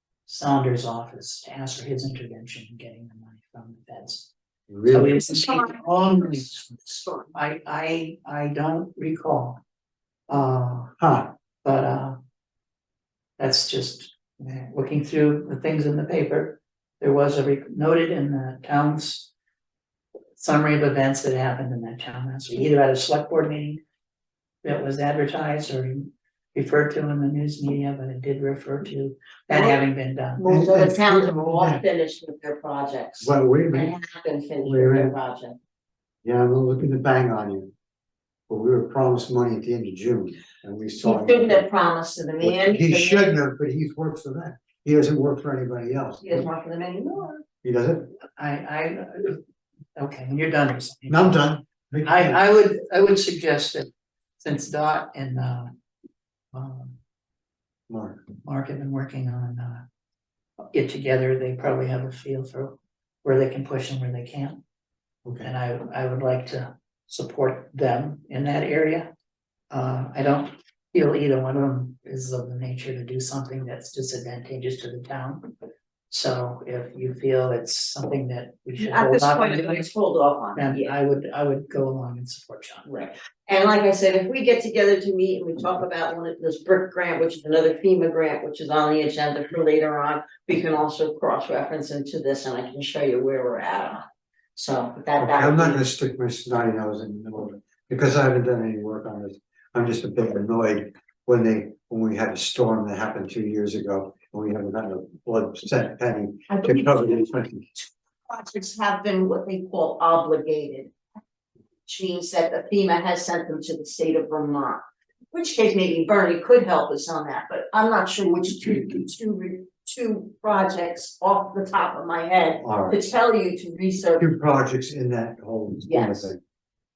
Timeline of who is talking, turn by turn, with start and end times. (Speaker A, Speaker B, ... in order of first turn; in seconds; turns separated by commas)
Speaker A: 0.3-4.3, Speaker B: 4.7-5.2, Speaker A: 4.9-9.6, Speaker C: 5.2-7.3, Speaker A: 10.3-10.9, Speaker B: 11.0-11.3, Speaker A: 11.6-12.2, Speaker A: 13.4-19.3, Speaker A: 20.4-23.8, Speaker A: 24.6-30.4, Speaker C: 29.5-29.8, Speaker C: 30.4-35.6, Speaker B: 30.4-31.8, Speaker B: 33.2-33.9, Speaker B: 34.6-35.1, Speaker B: 36.2-37.7, Speaker B: 38.5-41.6, Speaker C: 41.0-43.3, Speaker B: 42.4-46.5, Speaker C: 46.2-47.4, Speaker B: 47.6-48.1, Speaker A: 48.4-49.4, Speaker A: 50.0-51.4, Speaker B: 51.1-52.4, Speaker A: 52.0-53.9, Speaker A: 54.4-55.7, Speaker A: 56.5-57.0, Speaker B: 57.9-58.2, Speaker A: 58.4-59.8, Speaker A: 60.7-64.6, Speaker B: 65.2-65.5, Speaker A: 65.4-69.1, Speaker A: 69.7-75.5, Speaker A: 76.1-79.9, Speaker C: 78.8-80.9, Speaker A: 80.5-82.8, Speaker C: 82.8-94.0, Speaker C: 94.5-95.8, Speaker B: 95.2-107.7, Speaker C: 106.5-110.9, Speaker C: 111.8-114.8, Speaker C: 115.3-124.3, Speaker B: 122.6-123.0, Speaker B: 124.2-126.4, Speaker C: 125.8-126.3